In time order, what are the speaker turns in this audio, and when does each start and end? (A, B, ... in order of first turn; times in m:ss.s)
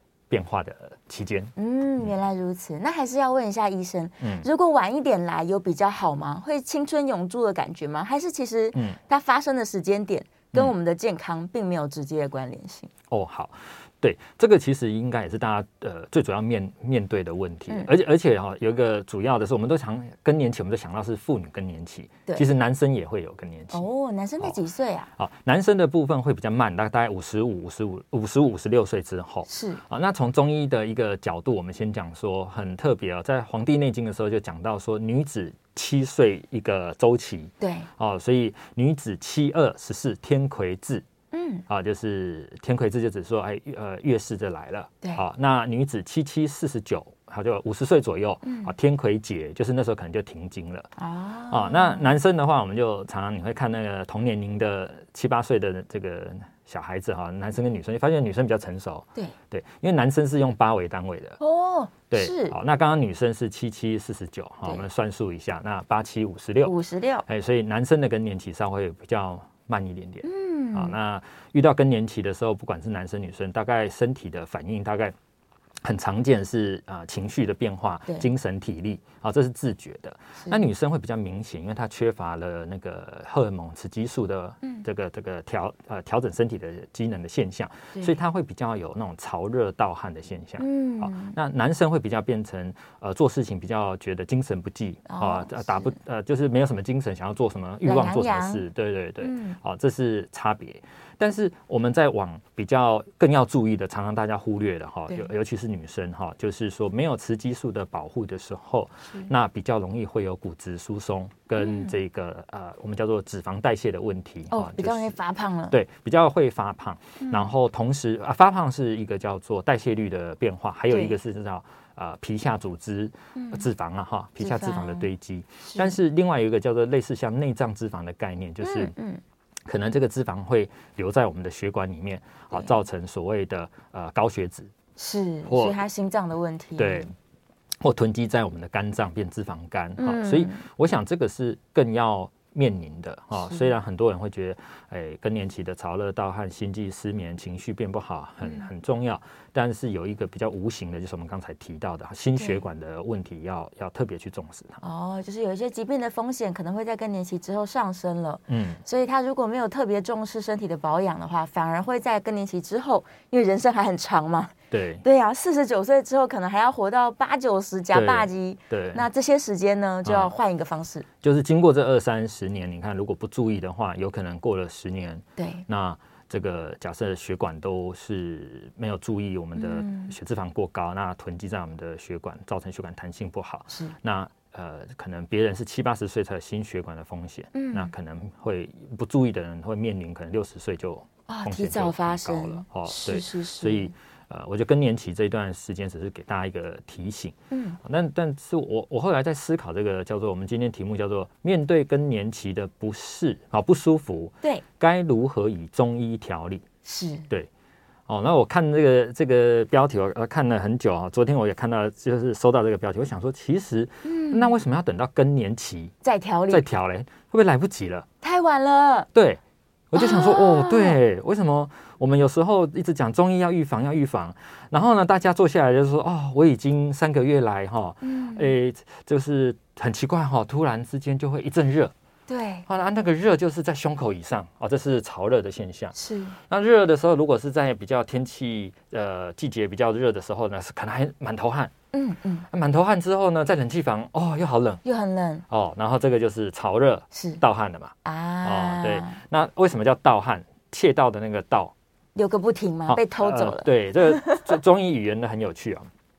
0:00.3-0:02.1 A
0:01.6-0:12.9 B
0:04.2-0:04.5 A
0:13.1-0:23.9 A
0:23.7-0:25.1 B
0:25.2-0:41.0 A
0:29.5-0:29.8 B
0:37.6-0:37.9 B
0:41.3-0:41.6 B
0:41.7-0:50.9 A
0:48.4-0:48.7 B
0:51.0-0:52.1 B
0:51.5-1:01.4 A
1:01.4-1:02.6 B
1:02.1-1:15.2 A
1:06.6-1:07.2 B
1:10.2-1:11.0 B
1:15.8-1:55.2 A
1:30.6-1:31.4 B
1:35.1-1:36.0 B
1:37.8-1:38.6 B
1:39.2-1:39.6 B
1:51.6-1:52.0 B
1:54.5-1:55.8 B
1:55.7-2:08.9 A
1:57.2-1:57.5 B
2:00.9-2:01.2 B
2:03.4-2:03.6 B
2:04.4-2:05.1 B
2:05.6-2:06.0 B
2:08.6-2:09.2 B
2:09.7-2:14.7 A
2:15.0-2:17.1 B
2:15.5-2:15.8 A
2:16.8-2:17.1 A
2:17.8-2:34.8 A
2:20.0-2:20.6 B
2:23.4-2:23.7 B
2:32.4-2:32.6 B
2:34.8-2:51.1 B
2:38.5-2:38.8 A
2:44.7-2:45.0 A
2:47.9-2:49.1 A
2:50.0-2:50.4 A
2:51.2-3:26.6 A
2:55.4-2:55.6 B
2:59.6-3:00.1 B
3:03.7-3:04.0 B
3:07.5-3:07.9 B
3:11.3-3:13.9 B
3:17.5-3:17.8 B
3:26.8-3:27.3 B
3:28.1-3:35.9 A
3:34.0-3:34.5 B
3:36.0-3:36.6 B
3:36.5-3:38.1 A
3:38.2-3:39.1 B
3:39.1-3:51.9 A
3:40.0-3:41.0 B
3:48.0-3:48.5 B
3:52.3-3:52.7 B
3:52.7-4:01.7 A
3:56.0-3:56.4 B
4:01.9-4:02.5 B
4:02.5-4:04.8 A
4:04.8-4:05.4 B
4:05.5-4:11.7 A
4:07.1-4:07.4 B
4:08.0-4:09.2 B
4:12.2-4:14.5 B
4:12.9-4:15.9 A